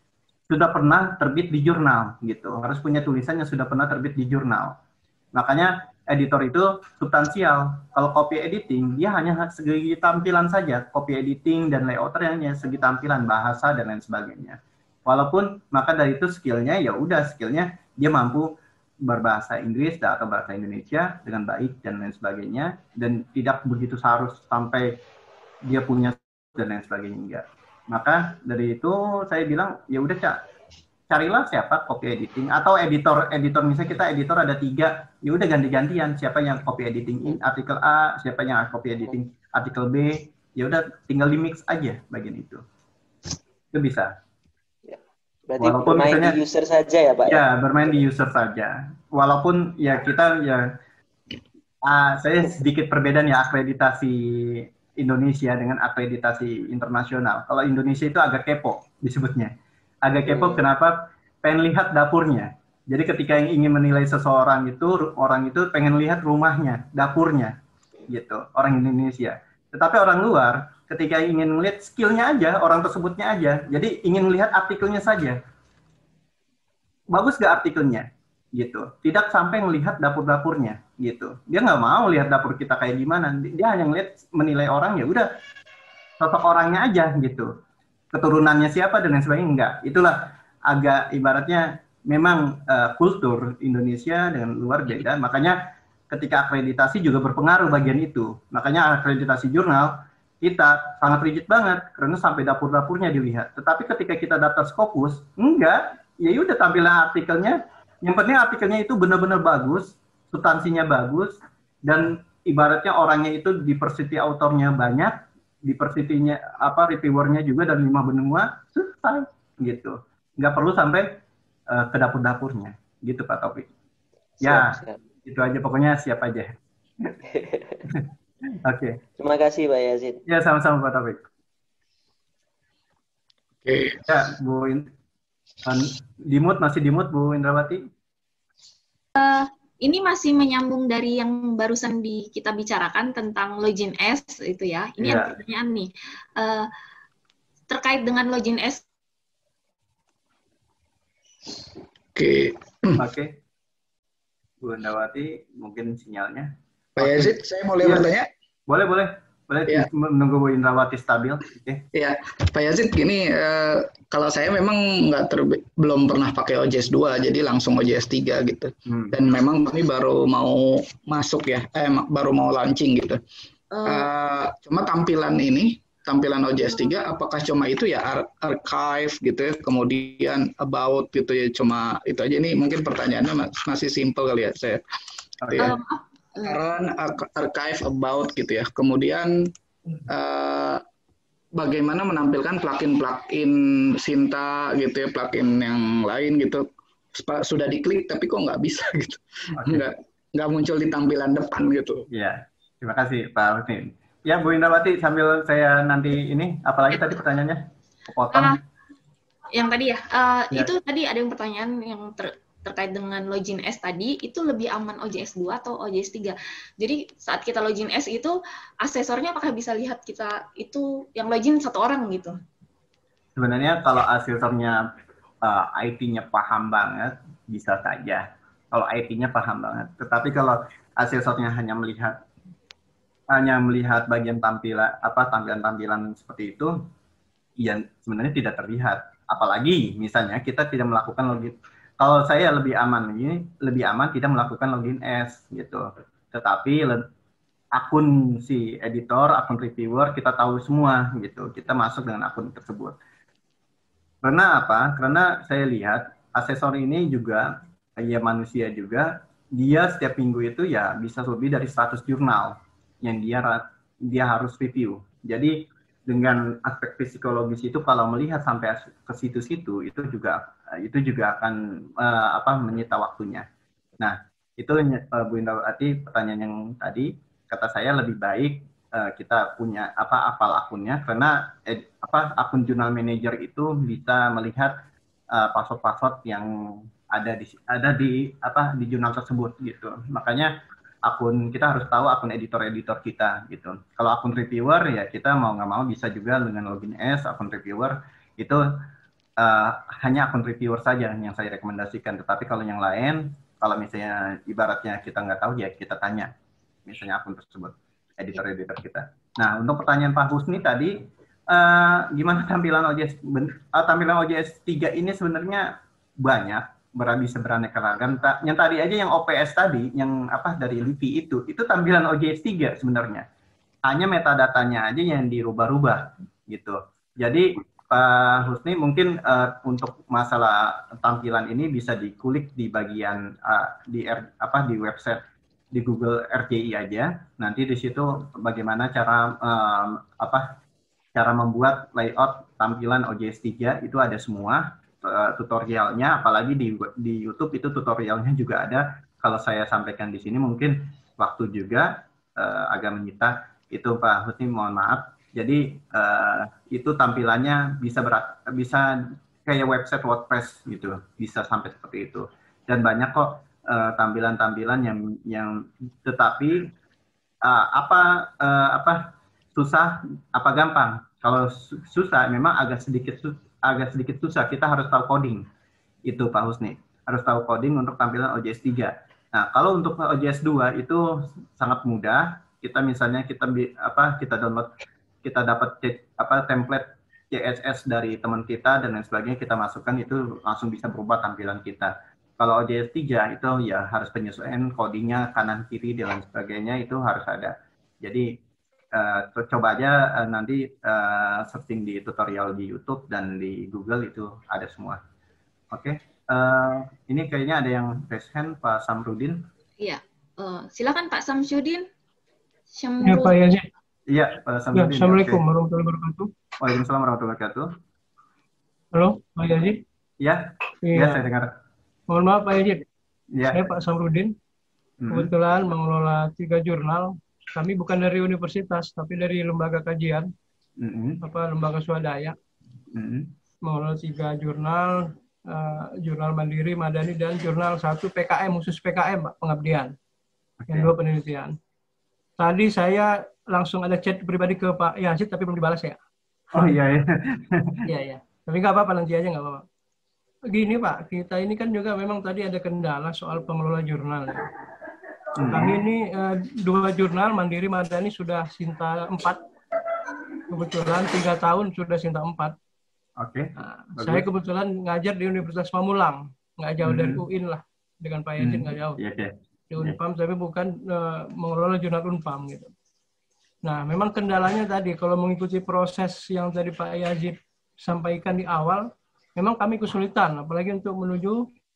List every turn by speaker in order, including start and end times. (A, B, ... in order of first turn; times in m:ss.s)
0:00.5-0:04.8 A
0:05.3-0:25.0 A
0:25.6-0:30.4 A
0:31.1-0:42.6 A
0:43.7-0:44.1 A
0:44.8-0:47.4 B
0:45.6-0:46.4 A
0:47.2-0:50.7 A
0:51.8-1:15.4 A
1:00.2-1:00.6 B
1:17.1-1:25.3 A
1:26.2-1:27.5 A
1:28.1-1:35.6 A
1:36.1-2:03.7 A
2:04.4-2:05.0 B
2:04.4-2:06.5 A
2:07.3-2:07.8 B
2:08.6-2:09.0 A
2:09.2-2:10.2 B
2:10.2-2:11.2 A
2:13.6-2:14.0 C
2:14.0-2:14.9 A
2:15.6-2:17.8 A
2:19.2-2:26.7 D
2:25.0-2:25.3 A
2:27.7-2:28.8 D
2:32.2-2:33.0 C
2:33.0-2:33.4 A
2:34.6-2:37.3 A
2:37.0-2:38.3 C
2:37.8-2:38.1 A
2:38.7-2:41.8 A
2:41.9-2:53.2 C
2:48.9-2:49.1 A
2:53.7-2:54.1 D
2:53.8-3:04.8 C
3:05.4-3:05.8 C
3:05.6-3:06.6 D
3:06.4-3:09.5 C
3:10.1-3:10.8 C
3:11.5-3:22.1 C
3:19.6-3:19.8 A
3:22.1-3:28.6 A
3:28.3-3:28.6 D
3:29.5-3:42.3 D
3:43.4-3:44.9 A
3:45.4-3:52.2 A
3:53.3-3:56.7 A
3:57.6-4:07.0 A
4:07.7-4:13.0 A
4:14.2-4:33.4 A
4:34.0-4:44.8 A
4:45.3-4:50.5 A
4:51.0-4:58.6 A
4:59.4-5:06.3 A
5:06.9-5:23.2 A
5:23.8-5:40.6 A
5:41.1-6:06.7 A
6:07.4-6:15.4 A
6:16.0-6:24.7 A
6:25.2-6:38.3 A
6:38.9-6:45.0 A
6:45.7-6:49.4 A
6:49.8-6:51.8 D
6:52.8-6:53.3 D
6:53.0-6:53.6 E
6:54.1-6:55.4 A
6:54.7-6:56.3 E
6:56.6-6:57.7 A
6:58.9-6:59.8 E
7:00.2-7:01.5 A
7:00.8-7:01.2 E
7:02.1-7:02.8 E
7:03.3-7:03.7 A
7:03.5-7:04.3 E
7:05.0-7:05.3 A
7:05.1-7:10.3 E
7:10.8-7:11.2 A
7:11.2-7:12.4 E
7:12.9-7:13.3 A
7:13.6-7:19.9 E
7:20.6-7:20.9 A
7:20.7-7:21.6 E
7:22.4-7:26.0 E
7:26.5-7:27.8 A
7:27.8-7:29.6 E
7:30.5-7:34.5 E
7:35.3-7:35.8 A
7:35.5-7:39.4 E
7:40.5-7:42.5 E
7:43.2-7:44.3 A
7:43.6-7:49.0 E
7:46.8-7:47.2 A
7:48.4-7:50.0 A
7:49.7-7:52.7 E
7:53.6-8:01.4 E